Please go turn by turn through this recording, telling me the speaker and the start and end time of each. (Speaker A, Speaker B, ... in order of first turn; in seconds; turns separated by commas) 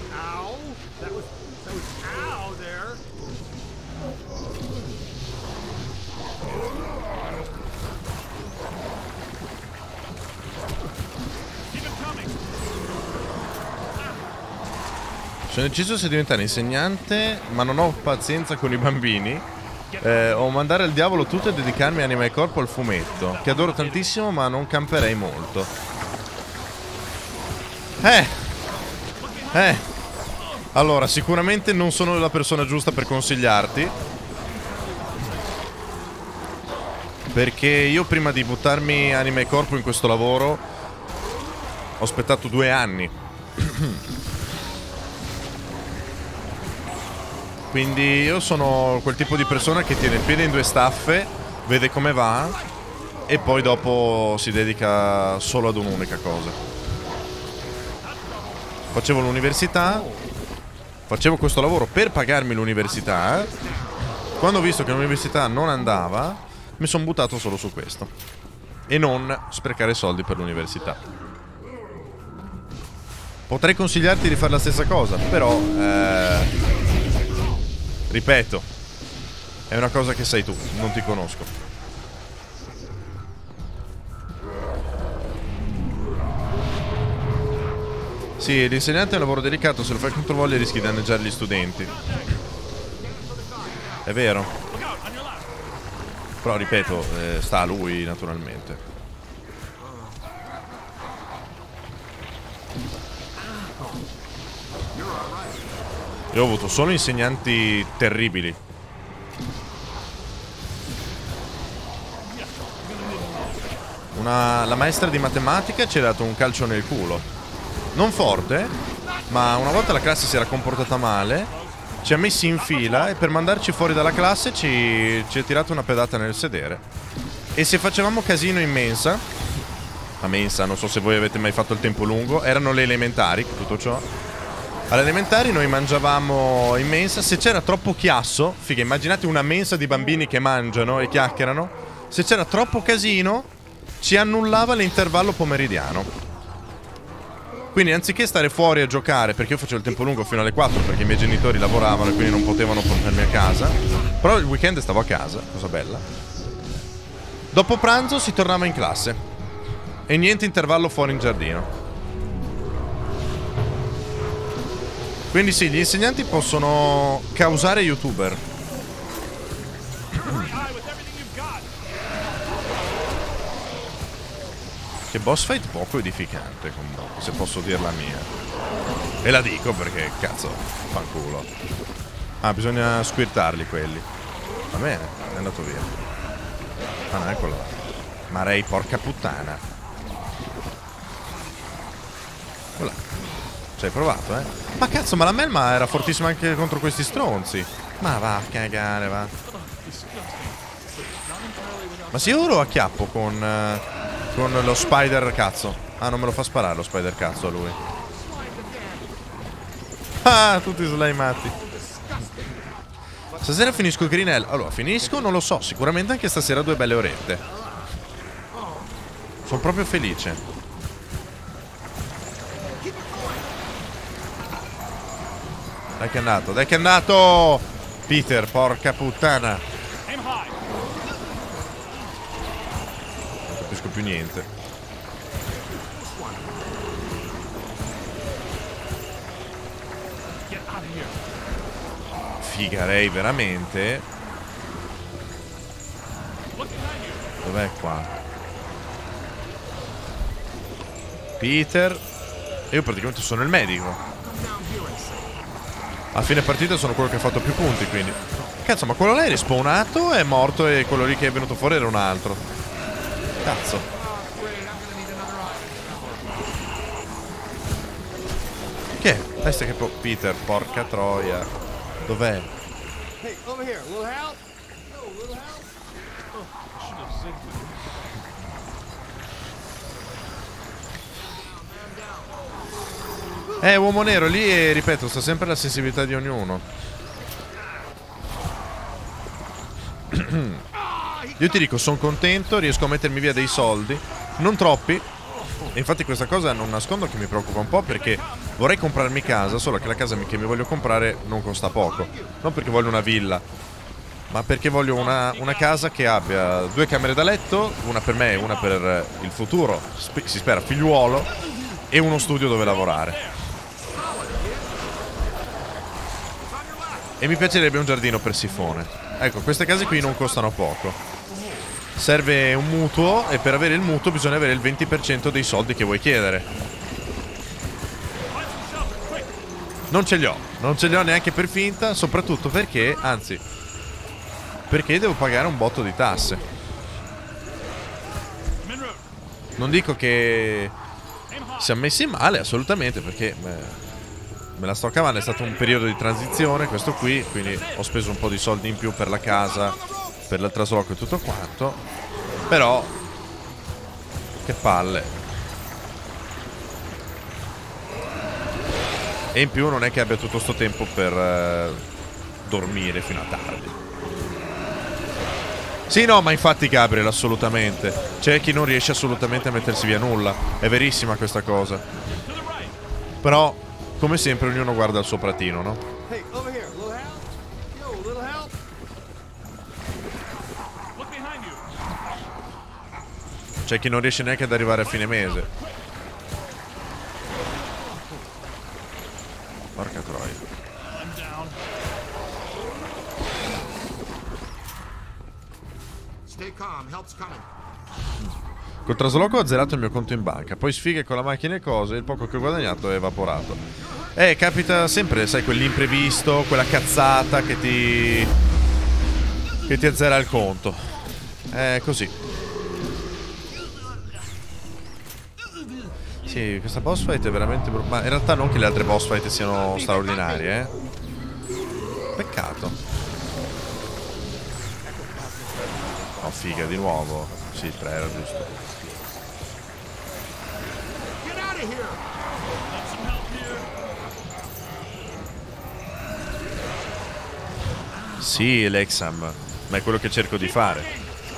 Speaker A: 0.2-1.2, Speaker B: 0.3-3.0, Speaker C: 11.7-12.4, Speaker D: 15.5-19.5, Speaker C: 19.9-20.5, Speaker D: 20.0-25.7, Speaker C: 23.0-24.1, Speaker D: 28.0-28.5, Speaker C: 29.2-30.7, Speaker D: 29.5-29.8, Speaker D: 30.7-33.9, Speaker C: 34.6-35.4, Speaker D: 37.3-40.6, Speaker D: 42.0-44.0, Speaker D: 47.7-52.6, Speaker D: 53.3-56.6, Speaker C: 58.0-58.7, Speaker D: 58.9-60.1, Speaker B: 59.8-60.3, Speaker D: 61.1-63.5, Speaker A: 62.8-64.2, Speaker D: 64.4-68.1, Speaker D: 68.9-71.0, Speaker D: 73.5-76.5, Speaker D: 78.1-78.7, Speaker D: 79.7-81.5, Speaker D: 88.4-91.9, Speaker C: 91.7-92.3, Speaker A: 92.9-94.0, Speaker D: 94.0-94.5, Speaker C: 94.7-95.5, Speaker D: 96.4-98.8, Speaker A: 99.8-100.2, Speaker A: 103.6-103.9, Speaker A: 104.9-105.7, Speaker D: 106.3-108.6, Speaker C: 112.2-113.8, Speaker D: 114.2-117.2, Speaker D: 118.0-118.8, Speaker D: 119.3-121.5, Speaker C: 121.4-123.3, Speaker D: 122.0-126.8, Speaker D: 127.5-129.2, Speaker D: 130.2-134.1, Speaker D: 134.9-143.5, Speaker D: 144.0-146.1, Speaker D: 147.7-156.1, Speaker D: 157.5-159.2, Speaker D: 160.1-161.7, Speaker D: 165.3-168.4, Speaker C: 170.1-171.7, Speaker D: 175.1-178.3, Speaker D: 179.2-181.5, Speaker D: 182.4-184.1, Speaker D: 184.7-185.9, Speaker D: 187.1-187.8, Speaker D: 188.3-189.6, Speaker D: 192.8-193.0, Speaker D: 193.8-199.3, Speaker C: 195.9-196.2, Speaker C: 199.4-202.5, Speaker D: 202.1-207.8, Speaker A: 207.9-209.2, Speaker D: 210.2-211.6, Speaker A: 211.5-212.7, Speaker A: 213.3-214.3, Speaker D: 213.4-217.4, Speaker A: 217.6-217.9, Speaker A: 218.5-218.9, Speaker D: 219.5-220.4, Speaker A: 222.8-223.6, Speaker D: 226.0-229.6, Speaker C: 230.1-230.6, Speaker D: 233.5-234.5, Speaker A: 235.7-236.6, Speaker C: 240.5-241.2, Speaker D: 242.4-244.1, Speaker C: 246.5-247.3, Speaker D: 247.4-248.1, Speaker D: 251.4-252.0, Speaker D: 252.7-254.0, Speaker A: 254.2-255.4, Speaker D: 256.1-262.4, Speaker D: 263.4-263.9, Speaker A: 263.9-266.4, Speaker D: 269.0-271.5, Speaker D: 272.1-272.5, Speaker A: 273.2-274.3, Speaker B: 273.4-274.4, Speaker C: 276.3-277.9, Speaker A: 281.4-282.3, Speaker D: 283.6-286.6, Speaker D: 290.1-290.7, Speaker A: 290.8-291.6, Speaker D: 291.4-295.1, Speaker D: 295.7-303.4, Speaker C: 297.8-300.1, Speaker A: 301.6-302.4, Speaker D: 304.3-311.3, Speaker C: 304.9-305.9, Speaker C: 308.2-308.9, Speaker D: 311.9-313.2, Speaker C: 312.5-313.4, Speaker A: 313.9-315.1, Speaker A: 316.4-317.2, Speaker D: 317.2-321.0, Speaker A: 319.8-320.4, Speaker D: 322.0-326.5, Speaker C: 328.3-329.4, Speaker D: 329.9-333.4, Speaker D: 334.7-336.4, Speaker C: 338.6-339.1, Speaker D: 339.6-340.8, Speaker C: 341.3-341.8, Speaker D: 341.6-343.8, Speaker D: 344.6-351.8, Speaker C: 345.2-346.0, Speaker C: 347.4-347.8, Speaker A: 349.4-350.2, Speaker D: 352.5-352.9, Speaker D: 354.4-355.1, Speaker D: 359.3-361.8, Speaker D: 362.4-363.8, Speaker D: 365.9-371.8, Speaker C: 369.1-370.1, Speaker C: 372.2-372.8, Speaker D: 373.2-375.8, Speaker B: 376.1-377.2, Speaker A: 376.8-377.2, Speaker B: 377.8-378.5, Speaker C: 380.9-381.7, Speaker D: 383.7-385.5, Speaker C: 384.8-385.9, Speaker D: 389.8-390.4, Speaker C: 390.9-391.6, Speaker A: 396.3-397.5, Speaker D: 398.9-403.6, Speaker D: 404.1-408.3, Speaker D: 409.7-410.9, Speaker D: 411.5-412.1, Speaker D: 416.2-420.7, Speaker D: 422.2-422.8, Speaker A: 424.9-427.0, Speaker D: 426.2-428.6, Speaker A: 428.6-429.0, Speaker A: 431.2-432.0, Speaker C: 432.7-433.7, Speaker D: 438.2-440.9, Speaker C: 440.4-441.2